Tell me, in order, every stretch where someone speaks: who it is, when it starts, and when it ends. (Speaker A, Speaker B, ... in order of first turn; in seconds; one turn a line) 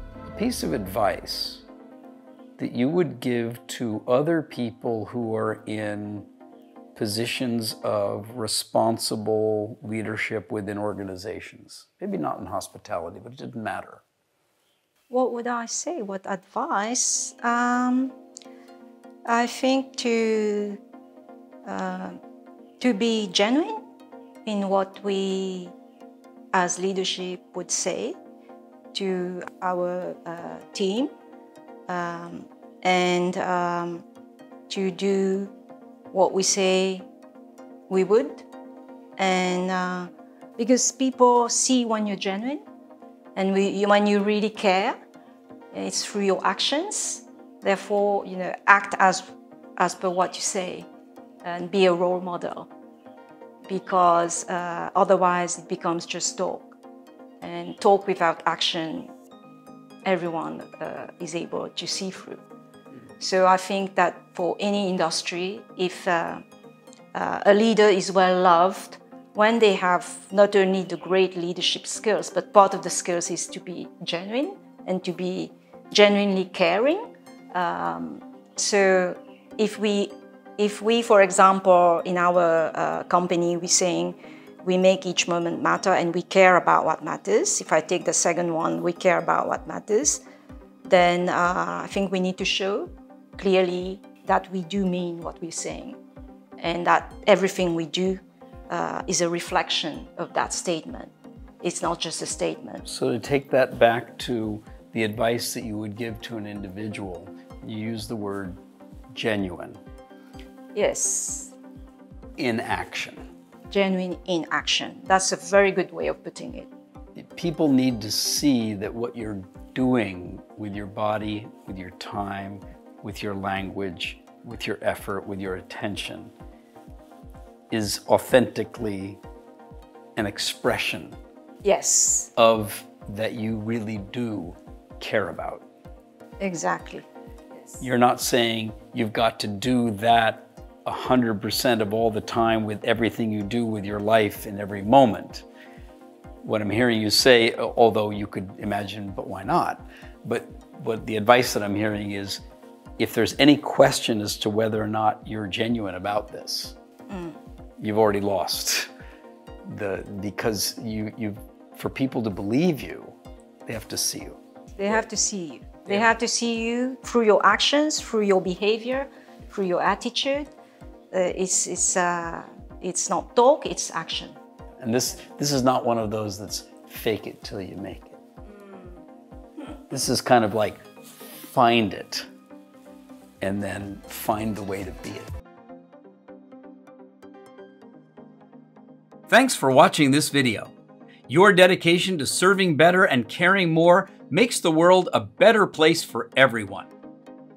Speaker A: 0.3-1.7
Speaker A: 2.6-6.3
Speaker A: 7.0-14.0
Speaker B: 15.1-18.2
Speaker B: 19.2-20.8
Speaker B: 21.6-22.2
Speaker B: 22.8-23.8
Speaker B: 24.5-25.8
Speaker B: 26.5-28.2
Speaker B: 28.9-31.1
Speaker B: 31.9-34.0
Speaker B: 34.7-35.5
Speaker B: 36.1-37.1
Speaker B: 37.9-38.5
Speaker B: 39.2-42.6
Speaker B: 43.3-45.0
Speaker B: 45.7-50.9
Speaker B: 51.4-52.7
Speaker B: 53.6-56.8
Speaker B: 57.4-59.1
Speaker B: 60.0-62.4
Speaker B: 63.2-66.4
Speaker B: 67.1-90.2
Speaker B: 90.8-96.0
Speaker B: 96.6-102.8
Speaker A: 102.8-108.6
Speaker A: 109.1-109.8
Speaker B: 110.7-111.5
Speaker A: 112.4-113.2
Speaker B: 113.7-116.7
Speaker A: 117.2-126.3
Speaker A: 127.7-129.2
Speaker A: 130.2-131.2
Speaker B: 131.6-132.3
Speaker A: 132.3-135.6
Speaker B: 136.4-137.1
Speaker A: 137.8-145.4
Speaker A: 146.4-152.4
Speaker A: 153.0-156.8
Speaker B: 157.1-157.4
Speaker A: 157.8-158.9
Speaker A: 159.7-163.2
Speaker A: 163.7-164.4
Speaker B: 164.8-170.5
Speaker B: 171.1-174.4
Speaker A: 174.8-178.2
Speaker A: 179.9-180.8
Speaker A: 181.4-182.3
Speaker A: 183.4-185.3
Speaker A: 189.3-190.7
Speaker A: 191.3-196.9